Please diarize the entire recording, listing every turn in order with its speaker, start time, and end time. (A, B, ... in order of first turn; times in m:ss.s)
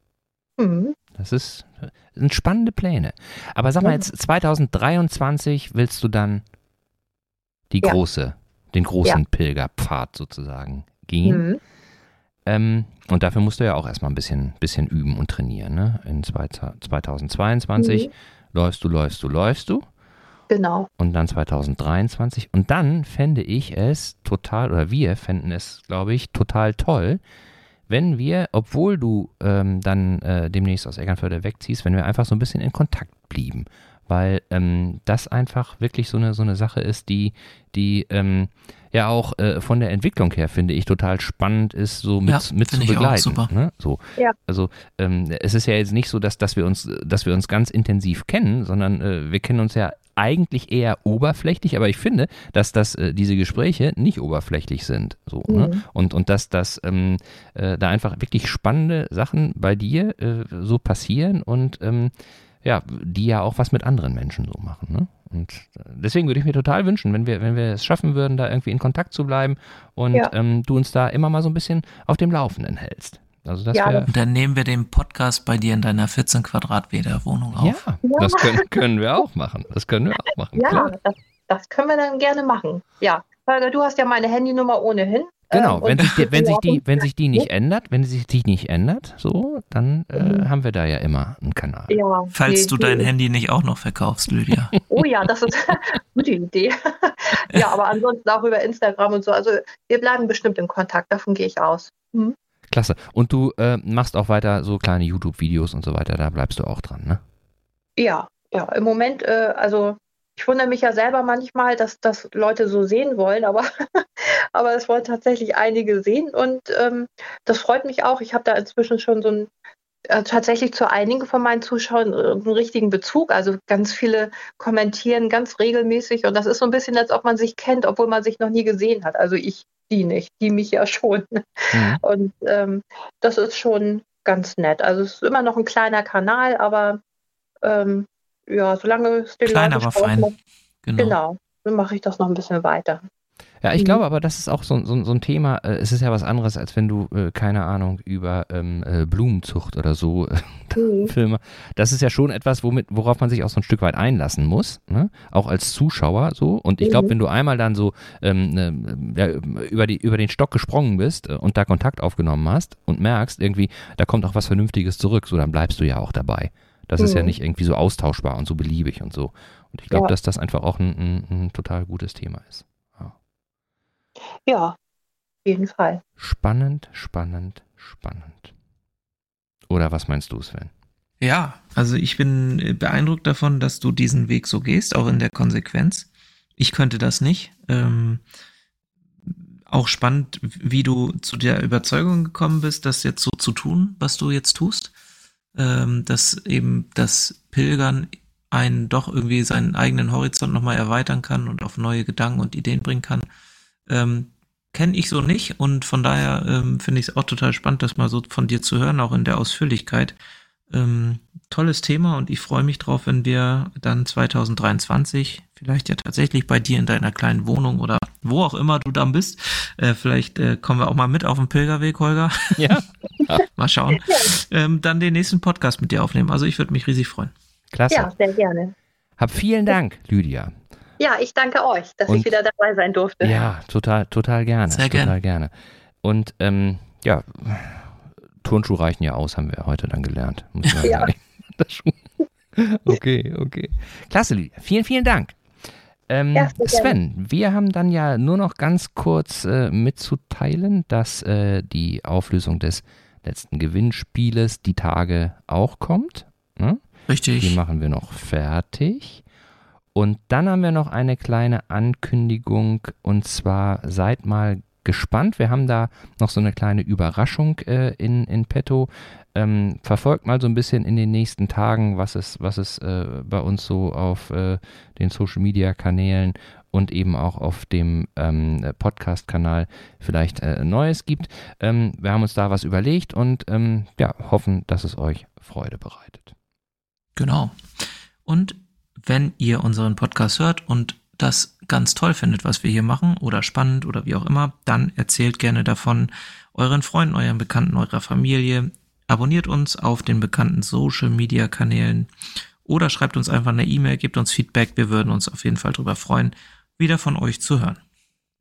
0:00.6-0:01.0 A
0:01.1-0:06.4 B
0:07.7-0:11.5 B
0:11.2-0:11.6 A
0:12.5-0:19.9 B
0:17.8-0:18.1 A
0:20.5-0:20.9 A
0:21.0-0:27.2 B
0:27.9-1:14.1 B
0:42.3-0:43.5 C
0:55.5-0:55.8 A
1:13.7-1:14.1 A
1:14.1-1:17.8 C
1:17.6-1:20.9 B
1:18.0-1:18.7 A
1:20.6-1:27.5 A
1:25.5-1:32.0 B
1:30.2-1:30.5 A
1:31.9-1:33.1 A
1:32.3-1:34.7 C
1:34.9-1:42.4 A
1:42.7-1:47.2 B
1:48.0-1:59.5 A
2:00.1-2:17.0 A
2:11.7-2:12.0 B
2:17.6-2:20.3 A
2:19.5-2:20.3 C
2:20.8-2:21.2 C
2:21.0-2:23.0 A
2:23.6-2:53.1 B
2:30.8-2:31.1 A
2:36.8-2:37.1 A
2:47.0-2:47.4 A
2:54.5-2:54.8 A
2:55.4-2:56.0 A
2:56.2-2:58.5 B
2:59.7-3:00.7 B
3:01.2-3:08.2 C
3:09.3-3:14.9 C
3:15.6-3:23.3 C
3:23.9-3:30.2 C
3:30.7-3:42.7 C
3:42.6-3:43.5 B
3:43.5-3:47.3 C
3:44.0-3:44.4 A
3:47.7-3:48.1 B
3:47.9-3:48.7 A
3:49.2-3:50.5 B
3:51.0-3:53.4 A
3:52.1-3:52.4 B
3:53.2-4:05.4 B
3:54.7-3:55.2 C
4:00.8-4:01.1 A
4:06.1-4:16.8 B
4:06.4-4:07.0 A
4:17.1-4:17.6 C
4:17.4-4:19.2 B
4:20.0-4:46.3 B
4:47.2-5:02.1 C
5:02.6-5:07.8 C